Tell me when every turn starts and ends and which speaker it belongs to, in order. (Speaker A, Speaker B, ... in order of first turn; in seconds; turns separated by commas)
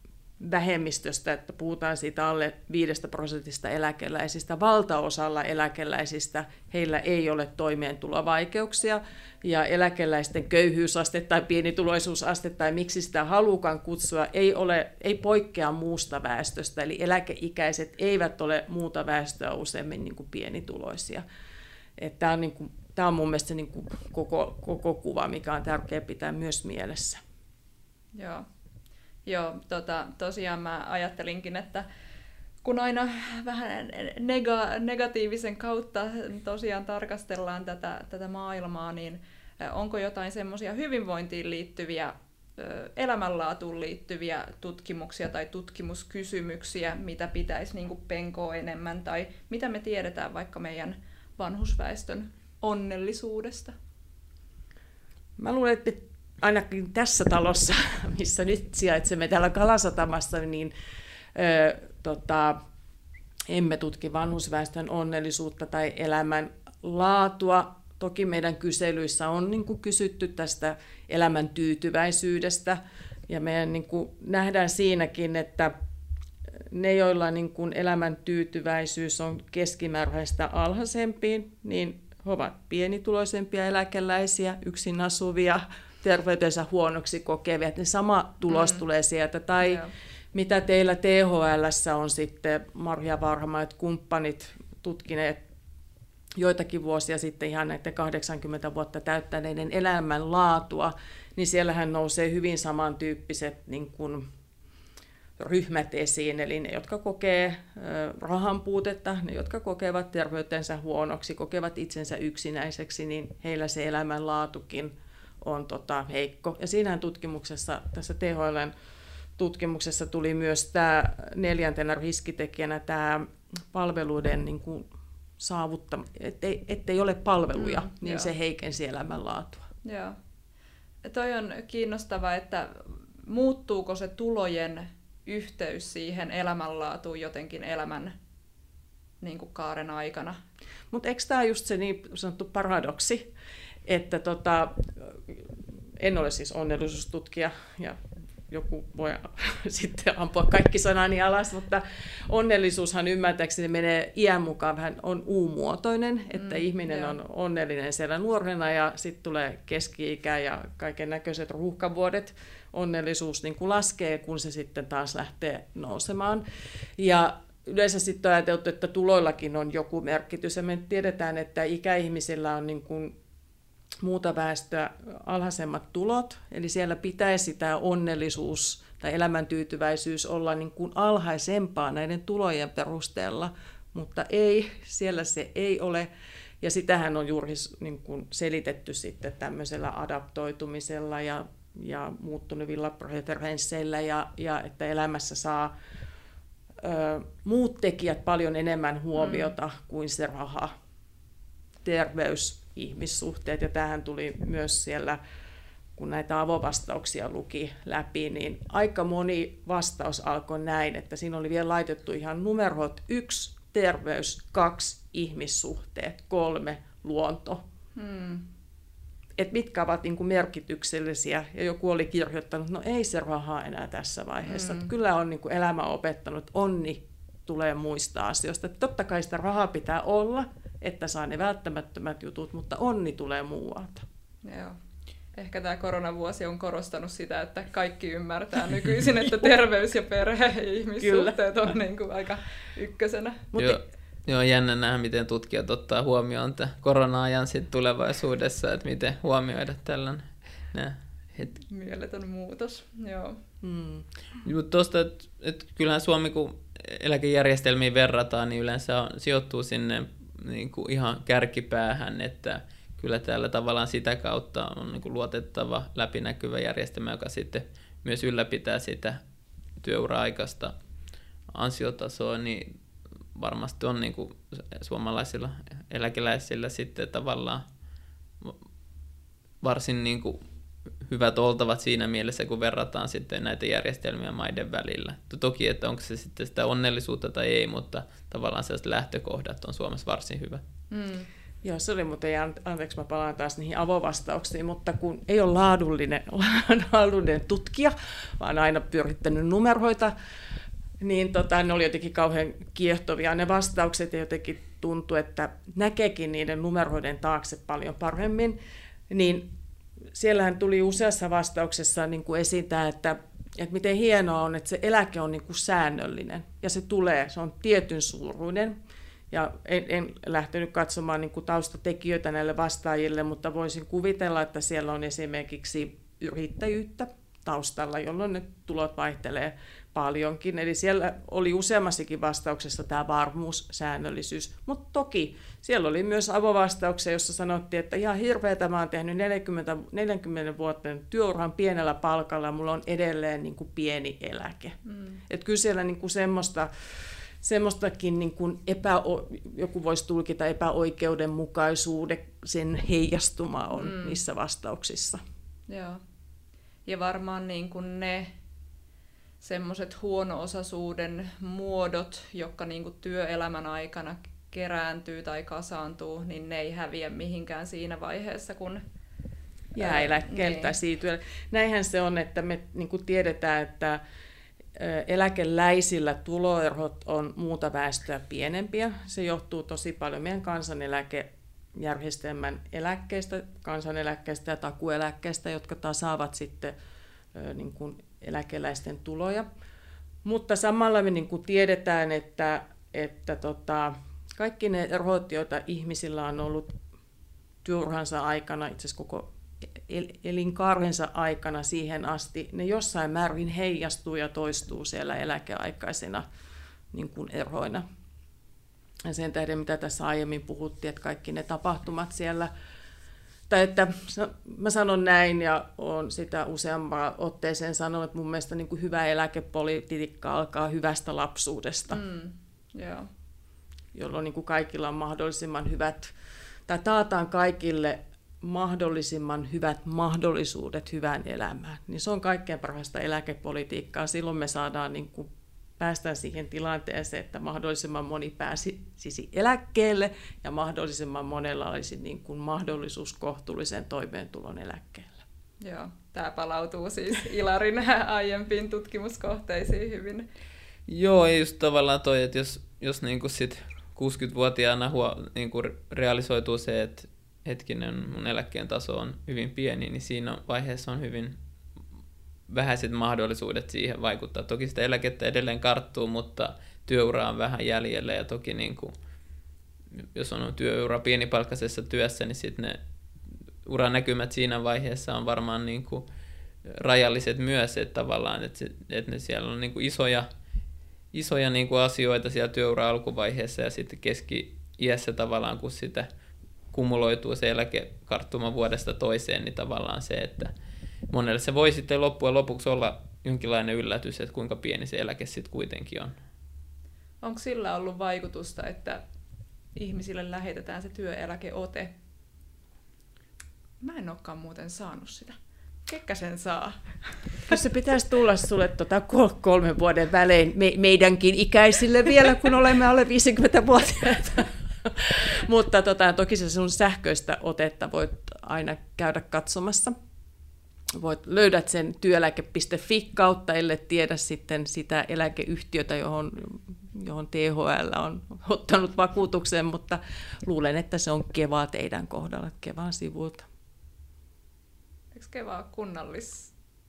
Speaker A: 0.4-21.2, Speaker A: 22.0-27.2, Speaker B: 28.1-28.4, Speaker B: 29.2-31.9, Speaker B: 32.6-53.7, Speaker A: 55.4-60.7, Speaker A: 61.3-62.6, Speaker A: 63.5-75.7, Speaker A: 76.7-95.4, Speaker B: 88.5-88.8, Speaker B: 89.6-89.9, Speaker A: 96.4-104.2, Speaker A: 105.4-118.7, Speaker A: 119.4-124.9, Speaker A: 125.4-129.7, Speaker B: 127.6-128.3, Speaker B: 129.8-130.2, Speaker B: 131.0-138.2, Speaker B: 139.2-140.4, Speaker A: 140.9-143.3, Speaker A: 143.8-166.4, Speaker B: 156.3-157.2, Speaker A: 166.9-173.1, Speaker A: 174.0-186.1, Speaker A: 186.6-195.7, Speaker A: 196.8-200.7, Speaker B: 199.2-199.5, Speaker A: 201.8-205.2, Speaker A: 205.9-217.6, Speaker B: 217.9-218.4, Speaker A: 219.3-234.0, Speaker B: 224.4-224.9, Speaker B: 234.4-234.8, Speaker B: 235.3-243.6, Speaker A: 241.0-241.4, Speaker C: 243.6-251.6, Speaker B: 251.6-253.4, Speaker A: 253.6-254.0, Speaker C: 254.4-269.2, Speaker C: 269.8-270.7, Speaker C: 271.5-272.7, Speaker C: 273.3-277.6, Speaker C: 279.6-280.4, Speaker C: 281.0-290.6, Speaker B: 290.9-291.3, Speaker A: 291.6-300.1, Speaker A: 301.0-308.6, Speaker A: 309.1-309.5, Speaker A: 310.1-318.8, Speaker A: 319.3-355.2, Speaker B: 344.9-345.2, Speaker B: 353.7-354.2, Speaker B: 355.7-356.0, Speaker B: 356.9-358.3, Speaker B: 359.4-368.8, Speaker A: 369.7-374.0, Speaker B: 369.8-370.7, Speaker A: 374.7-386.7, Speaker A: 387.3-389.4, Speaker A: 390.2-396.8, Speaker A: 397.6-406.3, Speaker A: 406.9-407.8, Speaker A: 409.0-412.5, Speaker A: 413.5-422.0, Speaker B: 421.9-423.1, Speaker A: 423.9-426.1, Speaker A: 426.7-445.2, Speaker B: 445.6-450.2, Speaker C: 450.9-461.4, Speaker C: 462.5-468.9, Speaker C: 470.0-472.8, Speaker C: 473.6-476.1, Speaker C: 476.6-480.3, Speaker C: 481.1-486.1, Speaker C: 486.7-490.5, Speaker C: 491.1-496.1, Speaker B: 497.2-499.0, Speaker B: 499.7-501.9, Speaker B: 503.8-505.4, Speaker B: 505.9-507.6, Speaker A: 507.5-520.0, Speaker A: 520.9-533.5, Speaker B: 535.1-536.5